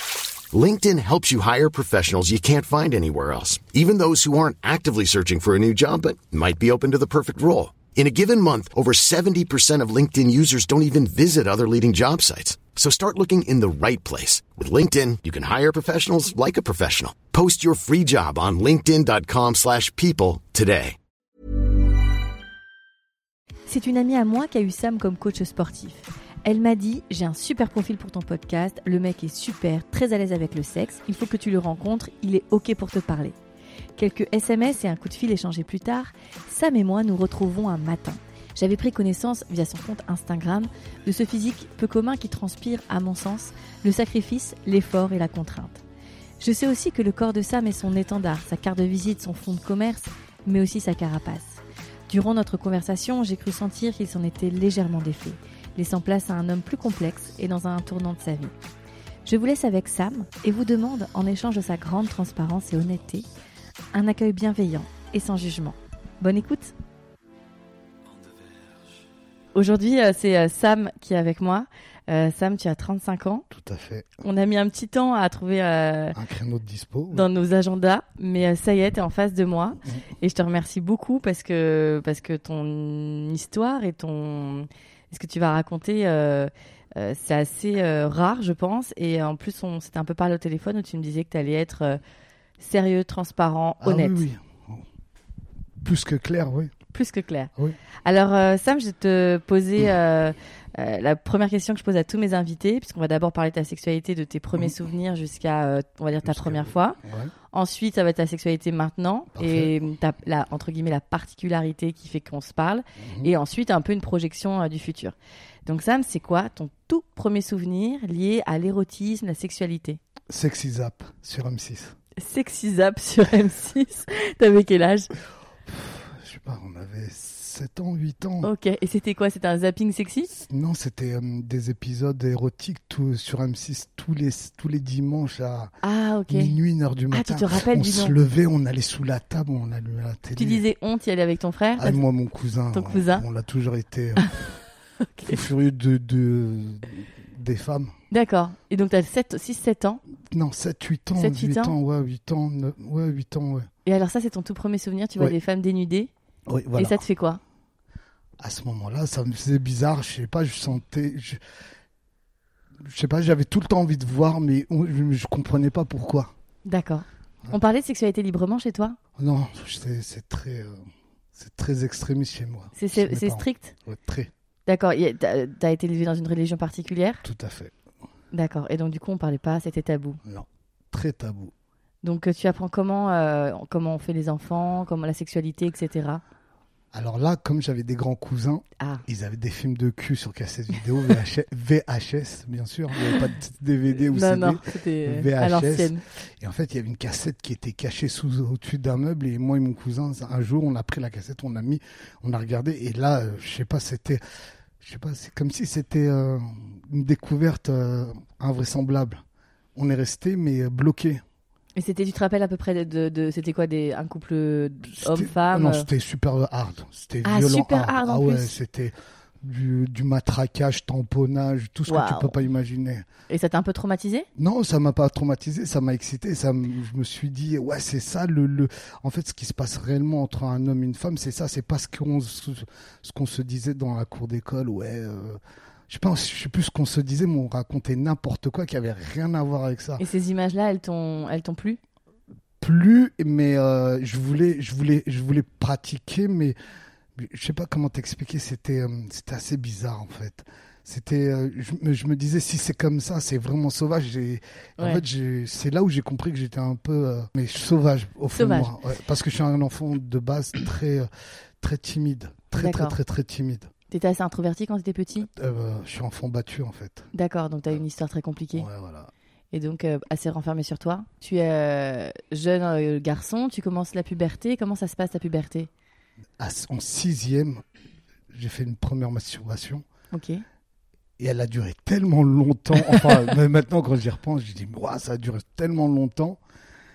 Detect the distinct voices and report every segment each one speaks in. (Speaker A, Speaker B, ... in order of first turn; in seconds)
Speaker A: 0.5-21.0
Speaker B: 23.7-33.4, 34.0-45.8, 46.4-58.5, 59.2-63.3, 63.9-66.8, 69.5-73.5, 74.2-76.2, 77.1-92.0, 92.6-94.3, 96.9-97.5, 98.0-107.0, 107.5-115.2, 115.7-120.0, 122.2-125.1, 128.4-130.3, 135.8-136.6, 137.1-138.2, 140.4-142.0, 142.7-143.2, 145.0-145.4, 148.1-150.0, 151.2-151.8, 153.9-156.1, 156.8-157.4, 166.7-169.0, 172.8-173.8, 174.7-177.2, 178.3-180.2, 182.0-186.2, 194.0-196.0, 211.8-215.9, 217.2-218.6, 221.9-222.4, 223.3-224.3, 240.0-241.8, 258.3-258.7, 262.5-263.0, 263.9-265.3, 267.1-268.7, 269.5-275.7, 280.1-280.4
Speaker C: 73.5-74.1, 76.1-77.3, 93.8-94.9, 95.8-96.7, 106.2-107.3, 109.4-109.7, 113.0-113.3, 120.3-122.0, 125.7-128.5, 130.3-135.7, 136.3-140.6, 141.8-144.6, 145.2-147.9, 150.3-153.7, 156.5-157.0, 158.4-161.4, 162.8-166.3, 169.2-174.3, 177.2-177.7, 180.2-181.5, 186.9-204.2, 204.8-209.2, 209.8-211.2, 214.9-223.1, 224.3-240.0, 242.6-246.6, 247.2-261.1, 261.6-263.7, 265.2-267.1, 268.5-269.1, 276.4-277.6, 278.3-279.9, 281.2-286.4